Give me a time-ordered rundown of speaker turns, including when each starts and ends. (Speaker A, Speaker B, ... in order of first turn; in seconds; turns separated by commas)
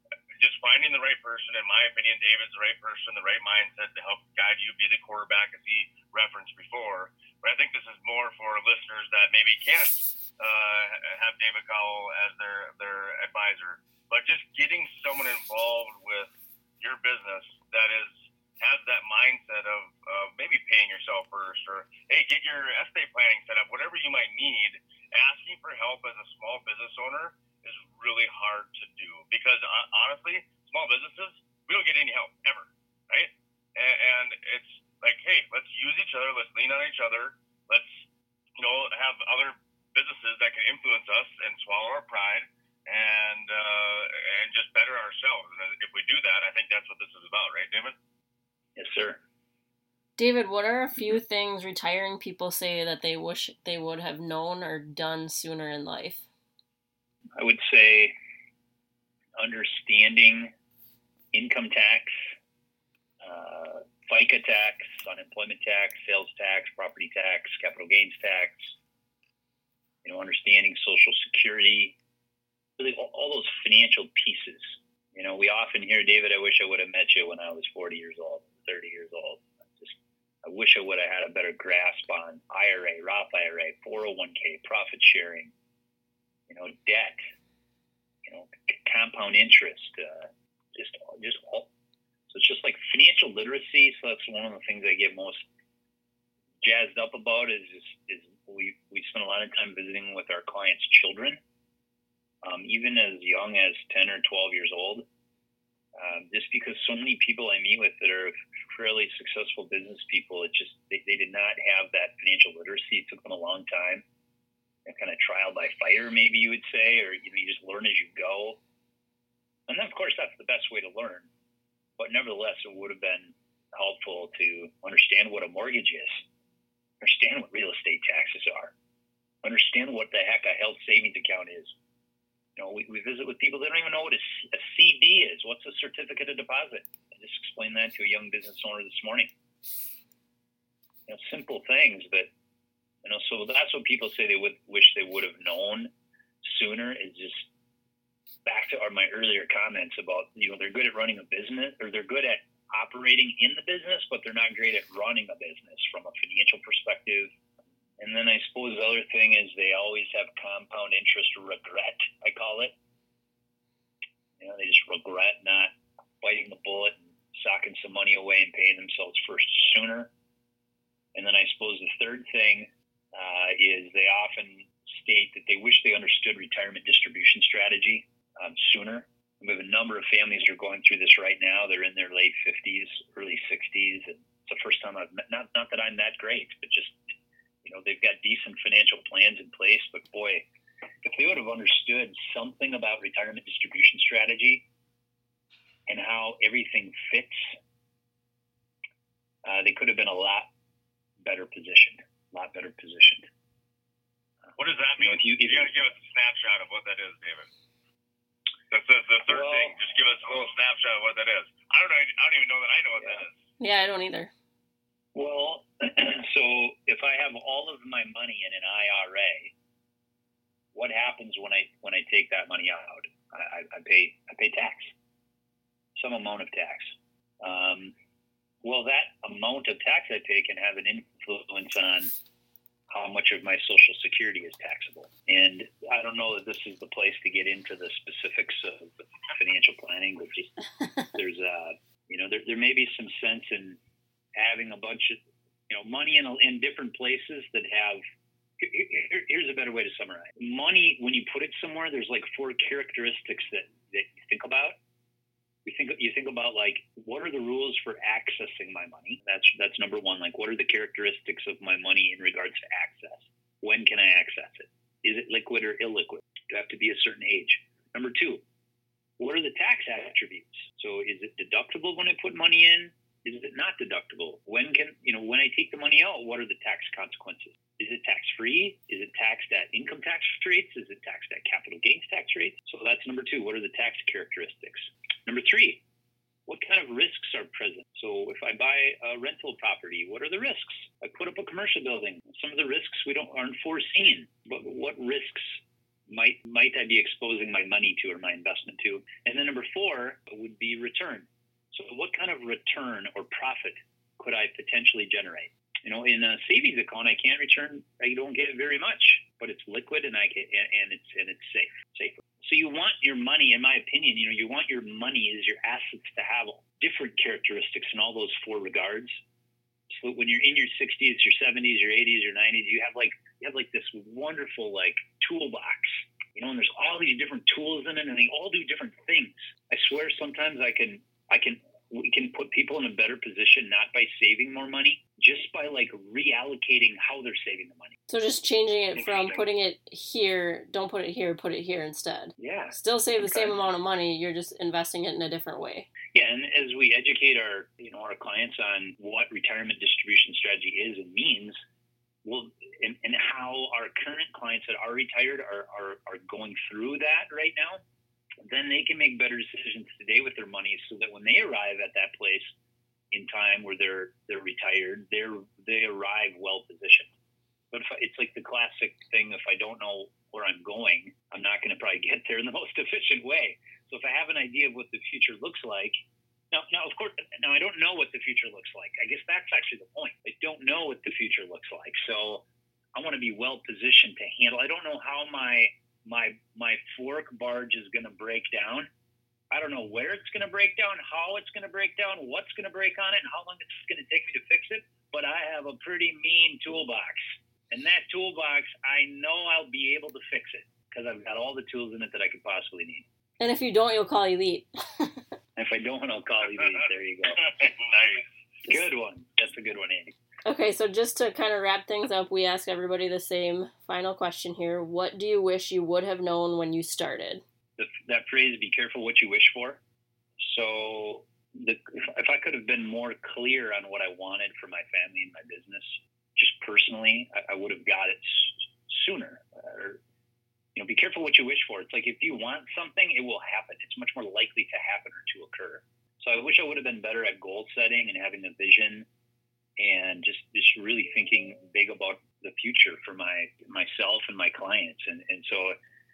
Speaker A: 0.4-38.0, Speaker A: 38.6-48.0, Speaker B: 48.8-49.2, Speaker C: 50.2-56.2, Speaker B: 57.4-58.1, Speaker B: 59.4-60.5, Speaker B: 61.3-62.2, Speaker B: 63.2-68.8, Speaker B: 70.0-72.0, Speaker B: 72.8-85.5, Speaker B: 86.5-87.2, Speaker B: 88.2-91.7, Speaker B: 92.3-95.4, Speaker B: 96.6-101.4, Speaker B: 102.4-105.0, Speaker B: 105.9-114.0, Speaker B: 114.8-118.6, Speaker B: 119.7-121.3, Speaker B: 122.0-126.2, Speaker B: 127.0-128.7, Speaker B: 129.4-131.7, Speaker B: 132.6-139.3, Speaker B: 141.1-142.3, Speaker B: 143.0-145.9, Speaker B: 146.4-147.5, Speaker B: 148.4-157.3, Speaker B: 158.0-162.7, Speaker B: 164.4-170.1, Speaker B: 171.1-187.0, Speaker B: 187.6-190.5, Speaker B: 191.0-194.6, Speaker B: 195.9-197.6, Speaker B: 199.4-200.5, Speaker B: 201.2-203.2, Speaker A: 204.6-207.5, Speaker B: 205.0-205.7, Speaker A: 208.7-213.4, Speaker B: 209.3-209.8, Speaker C: 213.6-214.3, Speaker B: 215.1-219.5, Speaker B: 220.7-224.9, Speaker B: 225.9-227.9, Speaker B: 228.6-232.1, Speaker B: 232.9-240.5, Speaker B: 241.1-243.8, Speaker B: 244.3-248.0, Speaker B: 248.6-254.8, Speaker B: 255.6-268.4, Speaker B: 269.2-285.8, Speaker B: 286.5-319.2, Speaker B: 319.9-337.9, Speaker C: 338.1-345.9, Speaker B: 342.4-343.6, Speaker B: 346.1-351.6, Speaker B: 352.2-357.8, Speaker B: 358.4-362.5, Speaker B: 363.1-367.1, Speaker B: 367.7-375.9, Speaker B: 376.5-382.4, Speaker B: 382.9-388.9, Speaker B: 389.5-403.0, Speaker C: 403.4-405.2, Speaker B: 405.6-407.5, Speaker A: 407.3-408.3, Speaker B: 408.6-410.1, Speaker C: 410.4-417.4, Speaker B: 417.8-419.8, Speaker B: 420.4-430.0, Speaker B: 430.7-439.1, Speaker B: 439.8-445.8